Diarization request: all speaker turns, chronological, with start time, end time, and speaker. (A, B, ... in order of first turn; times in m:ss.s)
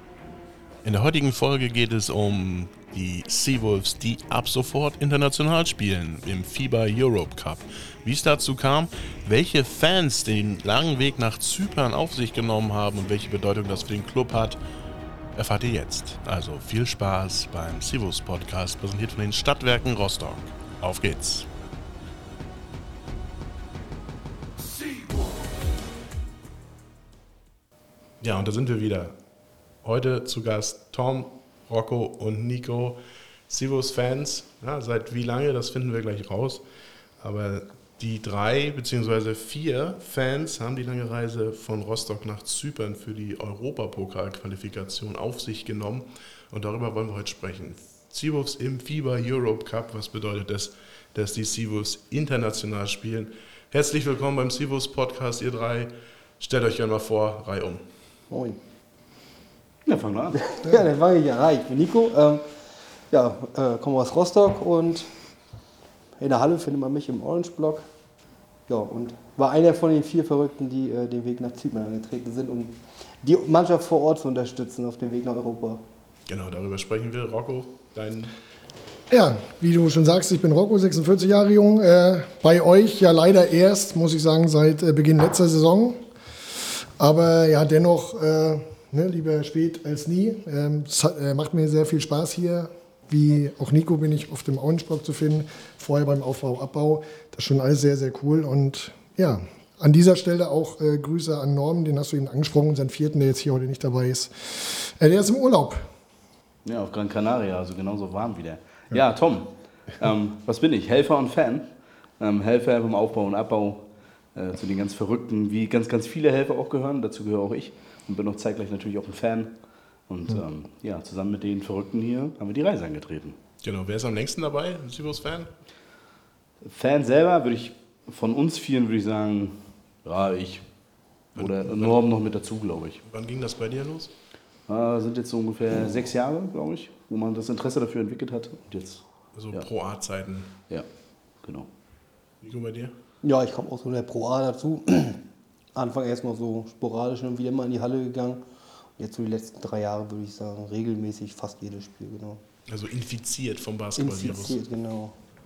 0:00.8-0:14.6 A
0:15.4-0:21.5 A
0:28.2-0:29.2 A
0:29.8-0:36.6 A
0:37.2-0:57.9 A
0:58.3-0:58.6 B
0:59.9-1:00.4 C
1:00.4-1:02.4 B
1:03.1-1:05.1 B
1:06.2-1:07.8 B
1:08.7-1:15.8 B
1:16.3-1:18.3 A
1:19.1-1:26.0 D
1:27.0-1:45.9 D
1:46.6-1:51.7 C
1:52.2-1:59.6 C
2:00.1-2:03.4 C
2:03.6-2:05.5 A
2:06.6-2:10.6 C
2:11.4-2:13.0 C
2:11.4-2:12.0 A
2:13.0-2:14.1 A
2:14.7-2:19.7 C
2:19.4-2:20.5 A
2:21.4-2:21.7 C
2:22.4-2:22.9 A
2:23.2-2:25.2 B
2:25.8-2:28.4 B
2:29.0-2:32.4 B
2:32.7-2:34.6 A
2:34.0-2:35.2 B